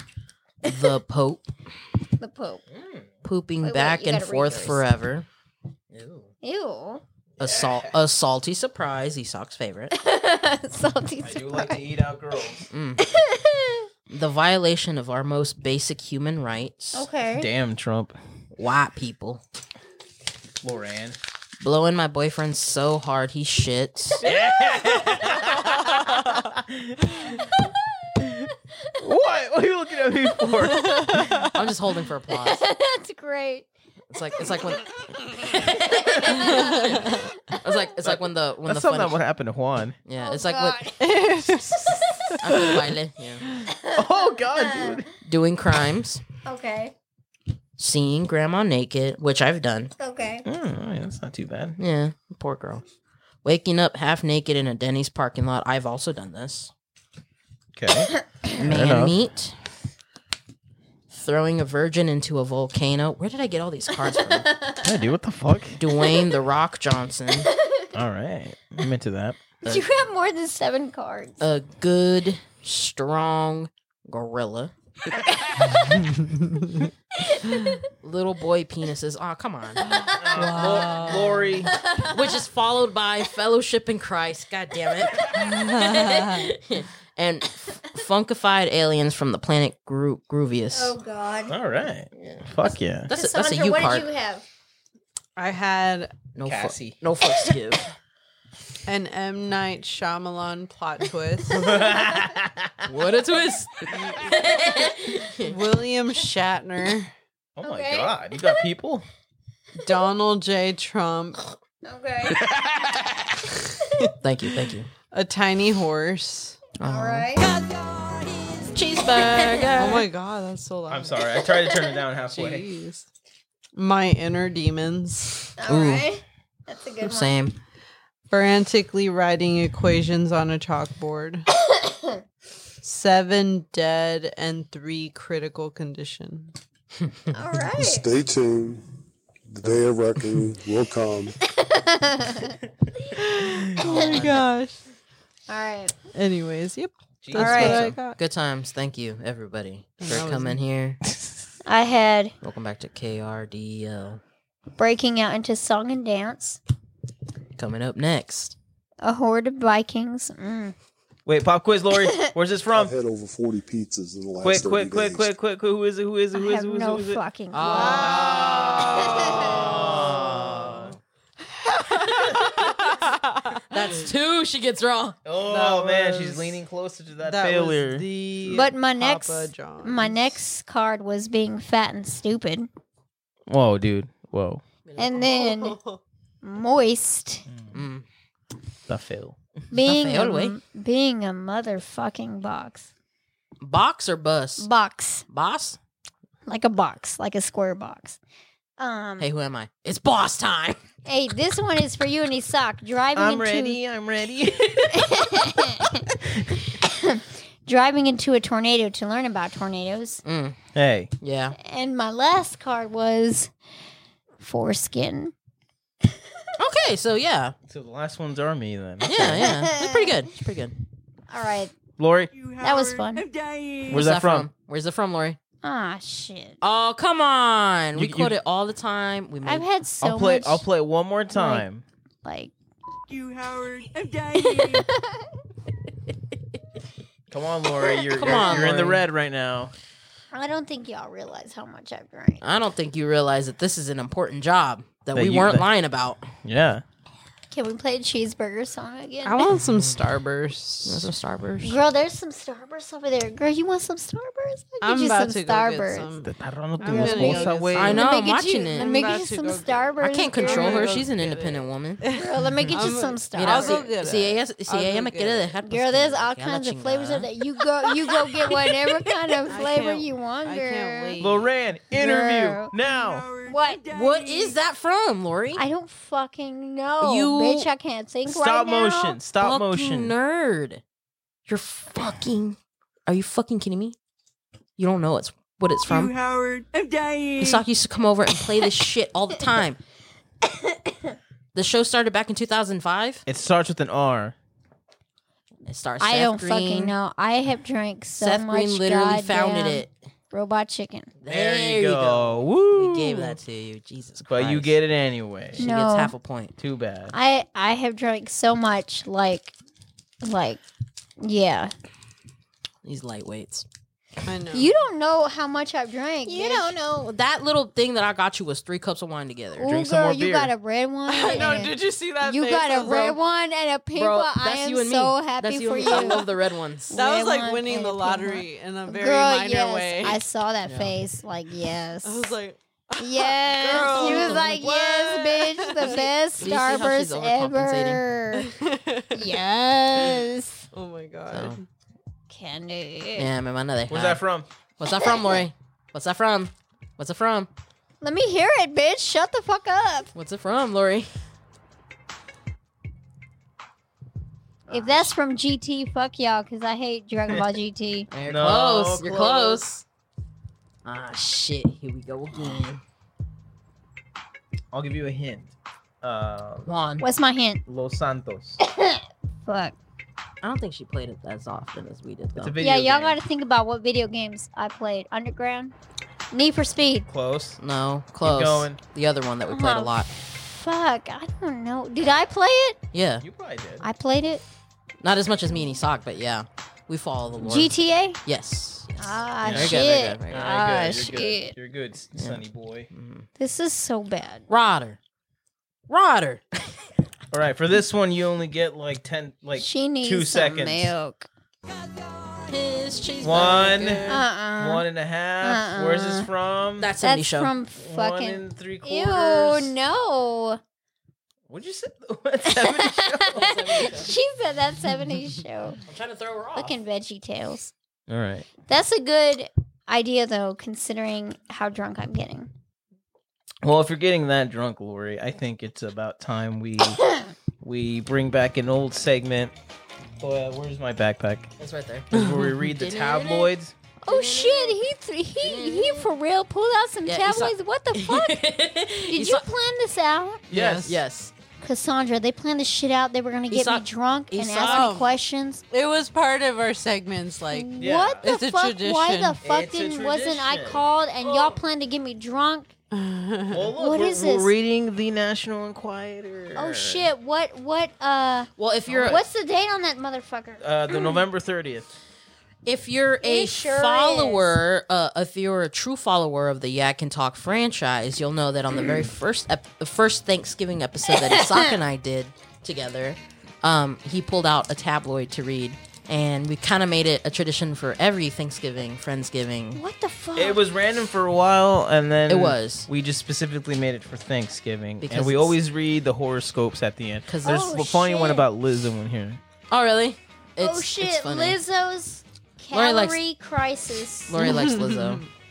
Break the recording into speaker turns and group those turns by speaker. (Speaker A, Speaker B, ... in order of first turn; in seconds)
Speaker A: 0.6-1.5, 2.7-5.3, 5.9-6.3, 7.4-9.9, 12.7-13.0, 14.1-17.1, 18.6-19.4, 21.6-24.2, 31.5-32.6, 34.1-39.1, 40.1-40.9, 42.4-43.5, 45.2-46.2, 47.8-49.9, 51.8-52.8, 53.4-56.7, 58.6-59.5, 61.1-64.5, 65.8-67.5, 71.4-74.7, 78.0-79.9, 80.6-81.0, 82.0-91.0, 92.1-92.5, 93.1-94.1, 96.3-97.9, 102.8-105.6, 114.2-114.9, 116.8-120.1, 125.7-126.1, 127.0-127.6, 144.0-144.4, 147.4-151.0, 152.4-154.2, 157.6-158.6, 167.5-170.9, 172.4-172.8, 173.7-175.2, 184.9-185.5, 187.7-188.1, 189.7-190.6, 193.6-194.7, 195.3-195.8, 199.2-200.8, 210.2-210.6, 211.2-211.6, 216.6-217.6, 219.1-220.8, 223.9-225.4, 226.6-229.7, 238.2-239.1, 242.4-246.3, 250.9-251.8, 257.2-259.1, 260.0-262.0, 263.3-267.3, 273.9-275.6, 277.0-277.7, 279.4-280.8, 281.5-283.9, 284.8-286.3, 287.4-289.8, 291.5-293.2, 295.6-296.9, 298.2-299.9, 301.2-304.7, 305.6-306.5, 312.8-313.6, 316.3-319.7, 323.9-326.9, 330.6-330.9, 333.7-334.4, 336.4-338.0, 341.3-341.6, 343.1-344.2, 344.8-347.5, 350.1-351.1, 354.7-355.1, 358.1-359.9, 360.9-362.8, 366.6-367.1, 370.4-372.5, 377.6-380.1, 382.9-383.2, 385.0-390.3, 392.9-393.3, 394.5-395.0, 395.9-396.6, 402.3-404.3, 406.8-407.5, 413.3-414.2, 415.8-416.8, 431.6-433.5, 434.1-434.8, 435.4-436.1, 437.1-439.5, 440.8-441.3, 443.5-445.1, 458.6-459.2, 462.6-479.8, 482.3-482.9, 485.0-485.6, 487.3-487.6, 489.7-491.6, 492.7-493.2, 494.3-495.2
Speaker B: 2.2-2.6, 3.6-4.8, 6.4-7.0, 9.9-11.8, 13.0-13.9, 16.9-17.5, 24.2-25.1, 32.3-33.7, 35.7-37.7, 40.2-42.4, 43.7-45.0, 46.4-46.9, 50.0-50.4, 64.1-64.8, 66.0-66.4, 67.5-67.9, 69.6-71.4, 77.2-77.8, 79.9-82.4, 90.7-91.5, 93.1-94.4, 107.6-108.6, 111.8-112.4, 116.8-117.5, 125.6-127.3, 131.8-132.2, 137.3-138.1, 141.6-142.6, 143.8-144.4, 145.5-145.9, 147.4-147.9, 151.7-152.3, 154.8-156.6, 159.0-160.7, 166.3-169.7, 178.4-182.7, 185.0-185.8, 186.4-187.4, 189.7-192.9, 194.6-195.2, 196.4-198.2, 198.8-199.3, 201.1-203.8, 204.9-206.0, 206.7-210.2, 211.6-213.5, 214.4-215.3, 219.3-220.2, 221.3-221.7, 222.5-223.3, 225.6-226.6, 229.4-230.6, 231.3-231.7, 232.2-232.5, 233.8-235.3, 238.2-238.6, 240.3-242.4, 247.5-249.5, 251.6-256.1, 256.9-260.9, 262.1-263.9, 265.6-271.2, 271.9-272.7, 273.4-273.9, 275.6-279.2, 296.0-301.1, 305.6-306.1, 307.1-309.5, 310.2-310.6, 311.2-311.7, 314.5-316.8, 319.6-326.3, 326.9-332.3, 333.0-338.5, 339.1-340.6, 342.3-343.3, 348.0-350.1, 354.7-358.1, 362.4-362.6, 367.0-367.6, 368.6-369.7, 372.6-375.7, 376.3-377.1, 379.5-382.8, 383.8-384.4, 387.4-388.2, 389.0-391.5, 393.4-394.4, 399.6-401.3, 404.1-404.9, 405.4-406.3, 407.0-410.6, 412.4-415.8, 416.6-417.7, 418.6-422.5, 434.0-438.4, 439.1-440.4, 441.6-445.6, 447.5-452.7, 453.8-454.5, 456.6-458.5, 459.1-461.2, 463.2-464.6, 479.7-480.6, 487.4-488.5, 490.6-494.4
Speaker C: 7.4-8.0, 11.2-12.7, 17.4-18.1, 20.6-21.2, 24.2-27.3, 29.0-31.5, 38.0-40.0, 43.9-45.1, 50.4-51.8, 57.8-59.1, 64.8-65.8, 67.9-69.8, 80.1-81.8, 91.5-93.1, 96.5-97.0, 101.5-102.9, 107.6-109.0, 112.4-113.2, 120.9-122.7, 147.2-148.0, 161.3-162.9, 164.4-167.2, 168.1-170.9, 175.2-178.1, 183.5-184.6, 187.5-187.8, 188.9-189.4, 203.2-205.1, 210.7-211.1, 217.7-219.4, 222.0-222.3, 223.9-224.5, 227.9-228.3, 230.0-231.8, 237.3-239.7, 245.1-245.7, 246.4-246.8, 256.2-258.0, 271.2-273.3, 278.3-280.1, 293.3-294.4, 301.2-303.4, 304.2-305.6, 306.6-307.1, 319.6-320.5, 343.9-344.5, 358.2-359.6, 364.7-366.7, 367.7-368.6, 372.4-373.2, 377.1-377.6, 378.2-378.8, 383.2-383.9, 389.4-392.9, 397.3-400.9, 403.2-406.9, 407.7-409.7, 411.5-413.9, 418.1-418.5, 423.6-427.0, 427.6-429.5, 430.2-431.5, 432.1-433.7, 440.5-441.0, 447.8-448.3, 449.4-451.6, 453.5-457.1, 458.9-459.2, 460.6-461.9, 480.4-489.4
Speaker D: 30.6-31.5, 36.6-37.0, 41.0-42.9, 76.3-76.7, 79.8-81.5, 85.3-86.6, 95.4-96.2, 98.9-101.7, 104.0-104.4, 105.4-107.1, 109.8-111.4, 115.1-116.6, 119.7-121.4, 122.3-123.1, 123.7-125.5, 128.3-131.5, 132.8-136.6, 143.2-144.8, 146.2-148.2, 150.0-150.6, 167.6-168.7, 172.9-173.6, 175.4-176.6, 177.2-180.4, 185.3-186.0, 249.2-251.1, 254.8-265.5, 269.4-271.5, 314.2-314.8, 321.1-323.2, 325.9-326.2, 326.9-330.2, 332.0-336.2, 338.4-339.4, 340.7-341.6, 390.3-391.0, 432.2-432.5, 440.5-441.0, 444.6-445.1, 445.7-449.4, 452.9-453.7, 494.4-495.3
Speaker E: 137.8-138.8, 139.5-141.4, 162.7-165.3